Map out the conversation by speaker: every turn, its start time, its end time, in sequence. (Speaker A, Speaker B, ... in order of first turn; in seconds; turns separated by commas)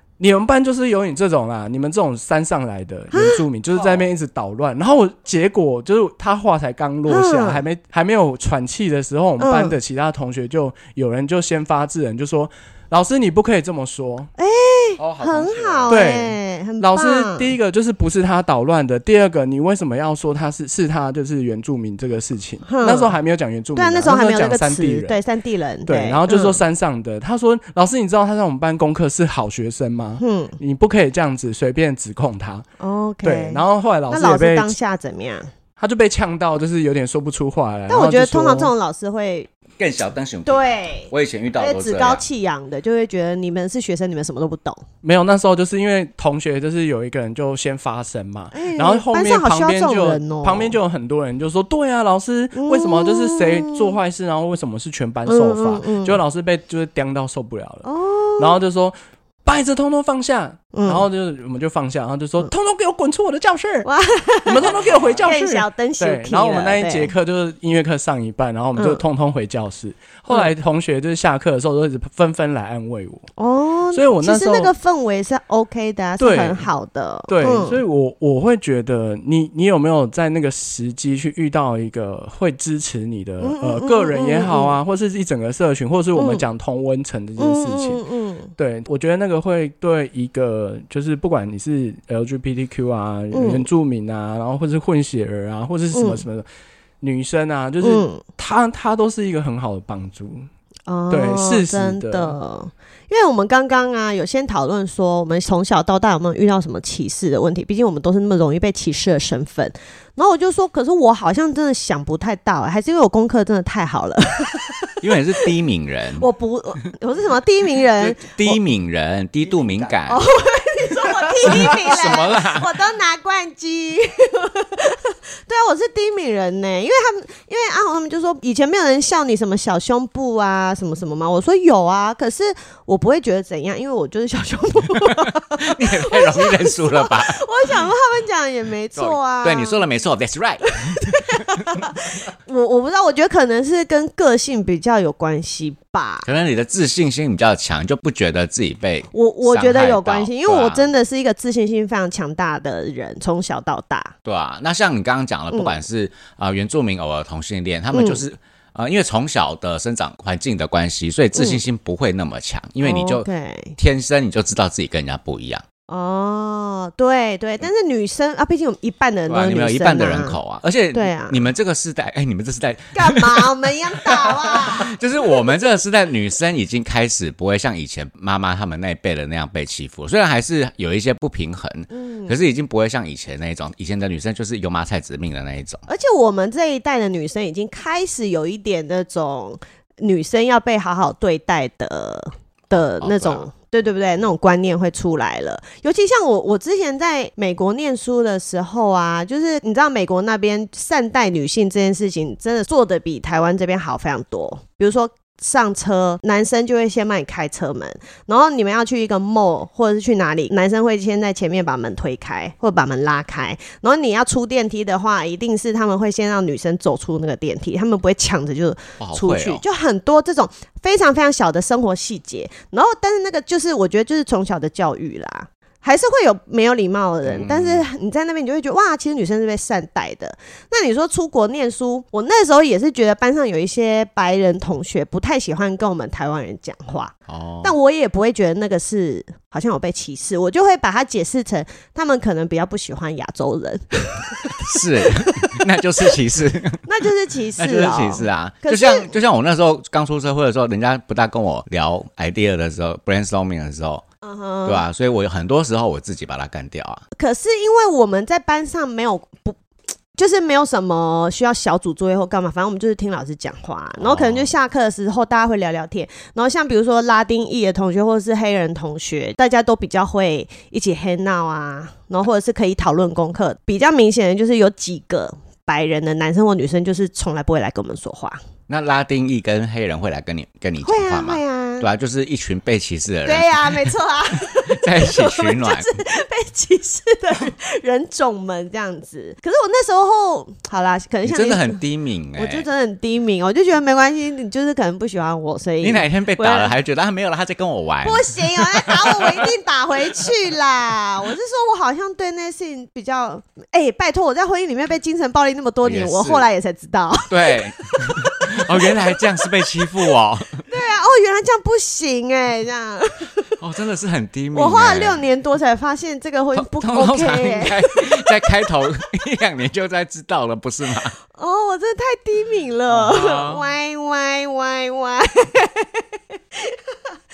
Speaker A: 0.2-14.3, Speaker B: 3.1-3.4, Speaker B: 7.1-7.6, Speaker B: 9.4-9.8, Speaker B: 14.4-17.5, Speaker C: 15.0-16.0, Speaker A: 15.9-25.2, Speaker B: 22.7-23.1, Speaker B: 23.8-26.6, Speaker A: 25.8-32.7, Speaker B: 30.2-30.6, Speaker B: 32.8-35.5, Speaker A: 33.2-34.8, Speaker A: 35.8-38.7, Speaker B: 37.9-39.5, Speaker C: 39.8-42.2, Speaker B: 40.5-44.8, Speaker A: 45.0-57.9, Speaker B: 48.5-50.8, Speaker B: 52.5-54.0, Speaker B: 55.2-56.2, Speaker B: 57.9-58.5, Speaker A: 58.4-63.9, Speaker B: 60.7-61.0, Speaker B: 63.8-67.1, Speaker A: 64.4-73.3, Speaker B: 68.8-69.0, Speaker B: 73.4-77.8, Speaker A: 73.9-74.7, Speaker A: 76.2-76.6, Speaker A: 77.3-88.0, Speaker B: 83.4-84.7, Speaker B: 86.1-86.4, Speaker B: 87.4-88.5, Speaker A: 88.6-96.5, Speaker B: 93.3-93.7, Speaker B: 95.9-96.2, Speaker A: 97.0-100.5, Speaker B: 97.8-98.2, Speaker B: 100.9-115.0, Speaker A: 101.1-102.4, Speaker C: 115.0-116.3, Speaker B: 116.2-118.6, Speaker C: 118.0-120.2, Speaker B: 120.0-139.8, Speaker C: 121.4-122.7, Speaker C: 135.1-137.8, Speaker C: 138.9-141.8, Speaker B: 140.6-146.2, Speaker C: 146.2-150.9, Speaker B: 149.1-154.1, Speaker C: 154.2-165.6, Speaker B: 155.5-155.8, Speaker B: 157.9-158.2, Speaker B: 161.3-161.6, Speaker B: 162.8-163.8, Speaker B: 165.9-170.4, Speaker C: 169.3-173.5, Speaker B: 170.9-171.4, Speaker B: 172.9-175.4, Speaker C: 174.1-185.8, Speaker B: 181.9-182.4, Speaker B: 185.9-245.5, Speaker C: 192.7-193.4, Speaker C: 219.0-219.6, Speaker C: 227.2-227.9, Speaker C: 237.3-237.7, Speaker C: 244.6-246.8, Speaker B: 246.8-249.1, Speaker C: 247.6-254.0, Speaker B: 254.2-254.9, Speaker C: 254.6-257.0, Speaker B: 257.2-259.6, Speaker B: 260.1-278.4, Speaker C: 264.0-264.5, Speaker C: 278.7-285.9, Speaker B: 280.8-281.9, Speaker B: 283.2-291.8, Speaker C: 291.2-292.7, Speaker B: 292.3-296.7, Speaker C: 295.8-299.5, Speaker B: 298.0-308.2, Speaker C: 305.8-306.4, Speaker C: 307.3-310.6, Speaker B: 310.6-313.5, Speaker C: 313.6-315.2, Speaker B: 314.5-318.5, Speaker C: 316.5-321.1, Speaker B: 321.3-326.8, Speaker C: 322.9-323.6